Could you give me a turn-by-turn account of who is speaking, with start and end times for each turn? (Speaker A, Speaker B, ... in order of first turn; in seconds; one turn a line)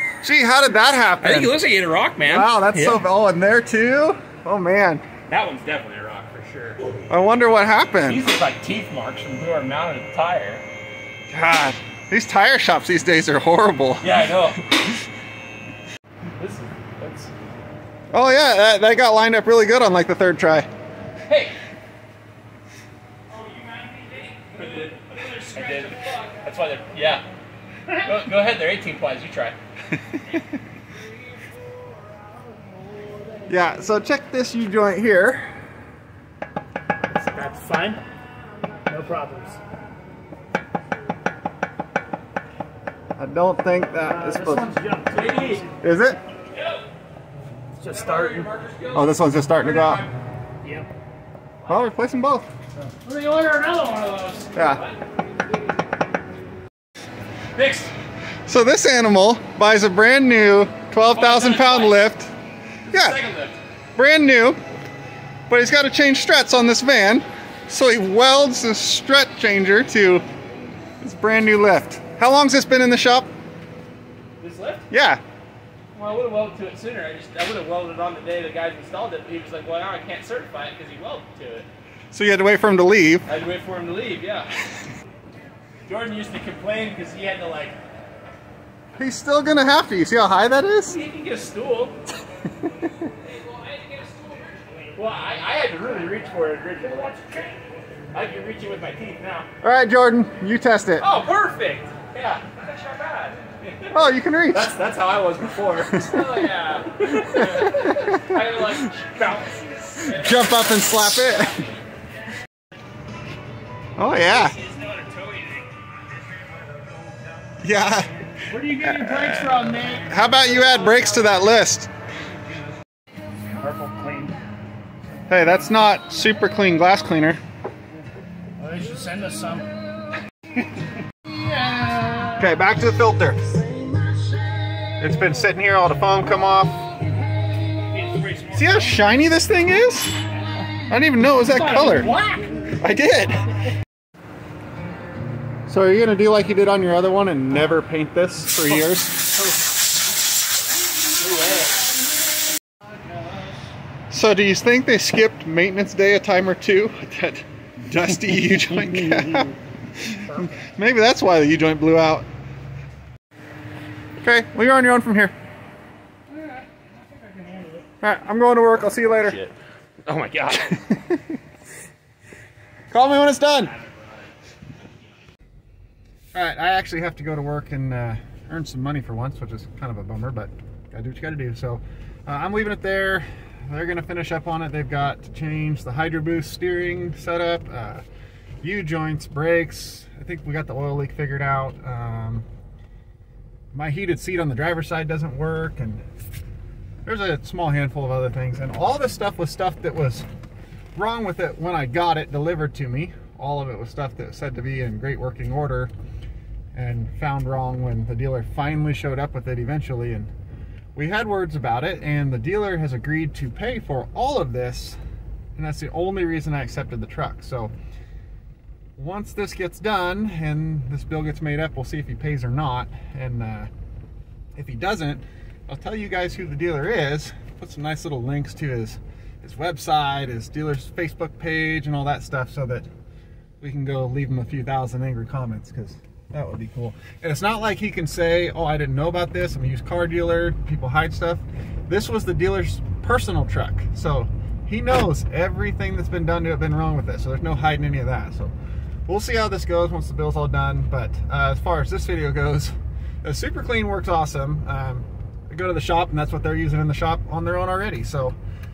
Speaker A: 0.2-1.6
Speaker B: 1.2-3.0
Speaker A: 2.2-5.0
Speaker B: 5.3-6.8
Speaker A: 7.1-8.2
Speaker B: 8.0-10.6
Speaker A: 11.3-14.2
Speaker B: 14.0-14.9
Speaker B: 16.4-17.3
Speaker A: 18.1-20.7
Speaker B: 21.2-21.5
Speaker C: 23.3-26.2
Speaker B: 24.5-27.3
Speaker B: 28.0-29.6
Speaker A: 33.5-35.6
Speaker C: 37.1-38.0
Speaker C: 38.9-39.6
Speaker A: 43.2-44.8
Speaker C: 44.0-45.8
Speaker B: 45.1-45.6
Speaker A: 45.8-46.2
Speaker B: 46.5-46.8
Speaker C: 47.8-48.5
Speaker B: 47.9-50.1
Speaker A: 48.9-50.0
Speaker C: 50.6-50.9
Speaker A: 51.6-52.5
Speaker C: 53.0-54.4
Speaker B: 54.2-55.0
Speaker A: 54.5-54.8
Speaker B: 57.5-57.9
Speaker A: 58.5-62.3
Speaker B: 61.1-62.1
Speaker B: 62.9-63.6
Speaker A: 62.9-63.2
Speaker A: 64.0-64.6
Speaker A: 65.5-70.2
Speaker A: 71.0-73.3
Speaker B: 74.4-74.9
Speaker A: 74.9-75.2
Speaker B: 75.9-81.7
Speaker A: 82.1-83.2
Speaker B: 83.2-84.6
Speaker B: 85.9-87.8
Speaker A: 89.0-91.0
Speaker B: 90.8-92.0
Speaker B: 93.2-99.5
Speaker A: 99.6-101.1
Speaker B: 101.0-104.0
Speaker A: 103.9-104.7
Speaker B: 104.5-111.8
Speaker A: 105.9-106.5
Speaker A: 107.2-108.4
Speaker A: 110.1-111.6
Speaker A: 114.0-114.6
Speaker C: 114.5-115.4
Speaker A: 117.6-118.3
Speaker C: 118.5-120.9
Speaker A: 118.8-121.9
Speaker C: 123.5-124.4
Speaker A: 125.3-127.4
Speaker C: 128.6-129.7
Speaker C: 131.3-132.5
Speaker A: 132.4-133.4
Speaker A: 135.0-136.8
Speaker C: 137.9-139.1
Speaker A: 138.5-140.2
Speaker A: 140.9-142.1
Speaker C: 141.5-142.6
Speaker A: 142.8-143.5
Speaker A: 145.7-149.3
Speaker B: 151.2-151.7
Speaker A: 154.1-162.3
Speaker C: 158.8-159.5
Speaker C: 160.2-160.6
Speaker A: 164.2-165.3
Speaker C: 166.3-167.8
Speaker A: 168.0-169.4
Speaker B: 169.1-169.5
Speaker B: 170.0-170.9
Speaker A: 170.8-171.2
Speaker A: 172.9-173.8
Speaker B: 173.7-174.1
Speaker A: 176.3-188.0
Speaker A: 188.6-192.4
Speaker A: 193.7-196.0
Speaker A: 197.0-200.2
Speaker A: 200.9-205.9
Speaker A: 206.7-210.3
Speaker A: 210.9-215.0
Speaker A: 215.6-217.7
Speaker A: 219.0-223.7
Speaker A: 224.5-232.9
Speaker A: 233.6-248.5
Speaker A: 249.1-258.4